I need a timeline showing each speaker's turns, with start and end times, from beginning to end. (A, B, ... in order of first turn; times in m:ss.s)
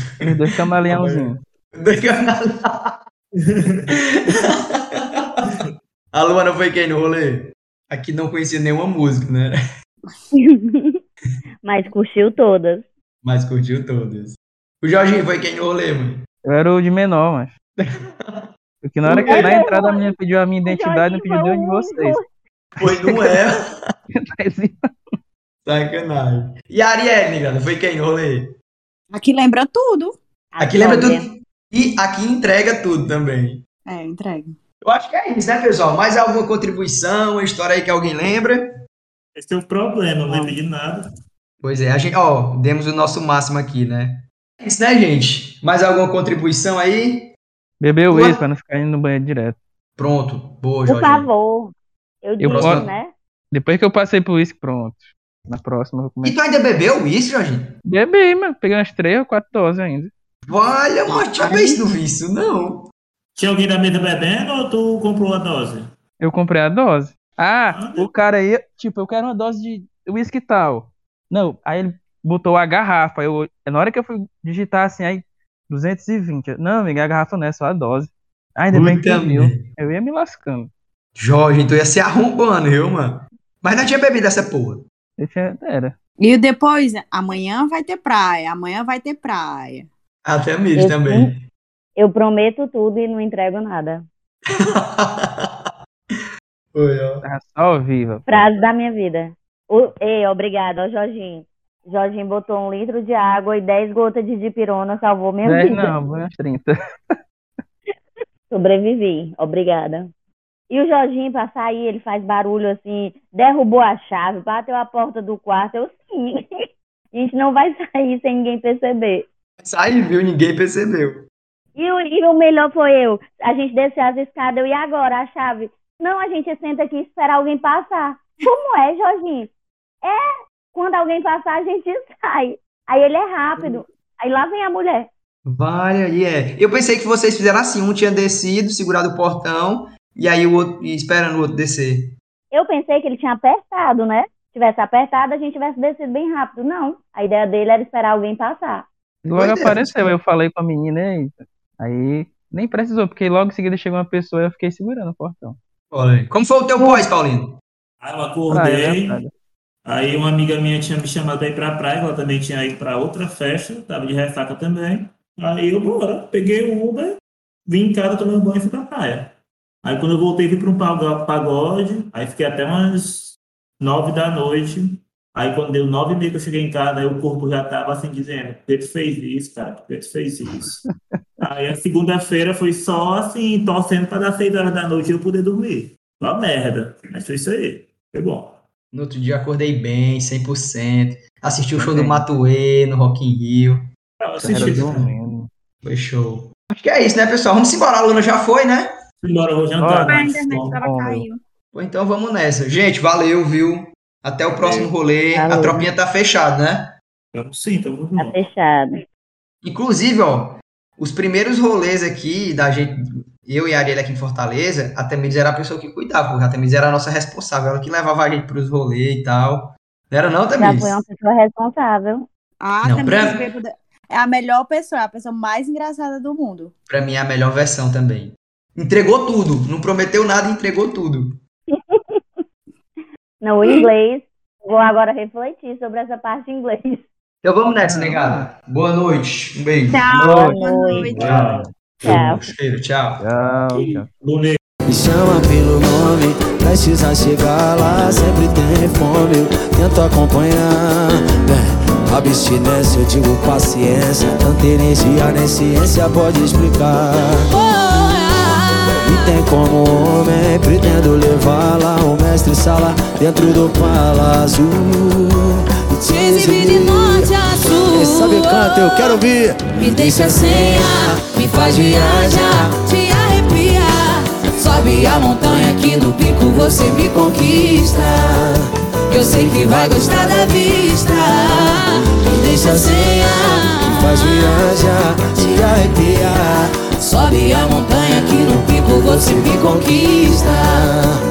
0:00.2-0:01.4 A
0:00.8-0:03.0 B
0:03.4-0:03.8 C
0:03.9-0:05.4 B
0:06.1-0:09.6 B
0:10.3-0:11.0 D
0:11.6-0:12.8 D
0:13.2-0:16.2 B
0:16.4-0:17.5 A
0:17.8-0:18.5 B
0:18.8-0:22.2 A
0:19.0-0:19.6 B
0:19.3-0:20.1 D
0:20.6-0:22.2 D
0:22.8-0:23.4 A
0:22.8-0:23.8 B
0:24.1-0:24.9 A
0:25.6-0:28.5 B
0:29.1-0:30.2 E
0:30.5-0:31.2 D
0:30.6-0:33.6 B
0:33.8-0:34.6 E
0:34.8-0:38.7 B
0:39.4-0:41.1 C
0:41.6-0:47.3 B
0:47.8-0:49.6 A
0:48.1-0:48.4 B
0:50.0-0:51.3 B
0:50.9-0:53.1 D
0:52.4-0:52.9 A
0:52.4-0:52.9 B
0:53.5-0:56.4 A
0:56.2-0:57.7 B
0:57.9-1:00.1 A
1:00.5-1:02.9 B
1:01.2-1:01.8 E
1:03.4-1:05.8 C
1:06.2-1:20.7 A
1:07.7-1:08.1 C
1:18.7-1:19.6 B
1:21.2-1:24.8 B
1:25.2-1:25.9 A
1:26.2-1:29.9 E
1:30.2-1:31.4 B
1:30.8-1:31.3 D
1:32.0-1:34.0 D
1:34.5-1:37.2 B
1:37.2-1:38.5 A
1:38.3-1:45.9 D
1:45.4-1:47.1 A
1:48.5-1:50.1 D
1:50.7-1:56.4 D
1:57.1-1:59.2 D
1:59.6-2:01.2 B
2:01.8-2:09.5 D
2:10.0-2:15.1 D
2:15.4-2:22.1 B
2:22.5-2:28.9 D
2:29.2-2:30.1 B
2:29.3-2:35.6 A
2:35.9-2:37.5 B
2:38.0-2:39.2 C
2:38.5-2:39.3 A
2:39.8-2:47.2 C
2:47.7-2:49.3 C
2:49.8-3:00.8 C
3:00.6-3:00.9 A
3:01.4-3:08.6 C
3:08.9-3:13.8 B
3:11.8-3:12.2 A
3:14.2-3:15.0 C
3:14.4-3:15.1 B
3:14.4-3:15.5 A
3:15.8-3:18.9 B
3:19.2-3:20.8 C
3:19.8-3:21.2 A
3:20.0-3:21.4 E
3:21.7-3:26.9 B
3:24.5-3:24.9 C
3:25.3-3:25.9 D
3:27.3-3:28.4 C
3:28.2-3:29.0 D
3:29.6-3:41.0 B
3:40.6-3:42.2 D
3:42.6-3:46.7 E
3:42.8-3:43.4 B
3:46.9-3:51.4 B
3:51.7-3:52.2 D
3:53.4-3:57.0 D
3:57.4-4:00.0 B
3:57.8-3:58.5 A
3:59.9-4:01.4 E
4:00.1-4:01.1 D
4:00.2-4:00.6 A
4:00.9-4:01.7 C
4:01.2-4:03.2 B
4:02.0-4:02.4 D
4:03.2-4:04.1 A
4:03.7-4:04.6 C
4:04.9-4:17.5 F
4:17.5-4:19.3 G
4:19.0-4:27.3 F
4:26.0-4:29.2 G
4:27.9-4:32.7 F
4:29.7-4:38.1 G
4:39.1-4:44.7 G
4:39.2-4:40.4 F
4:41.5-4:51.2 F
4:47.0-4:50.6 G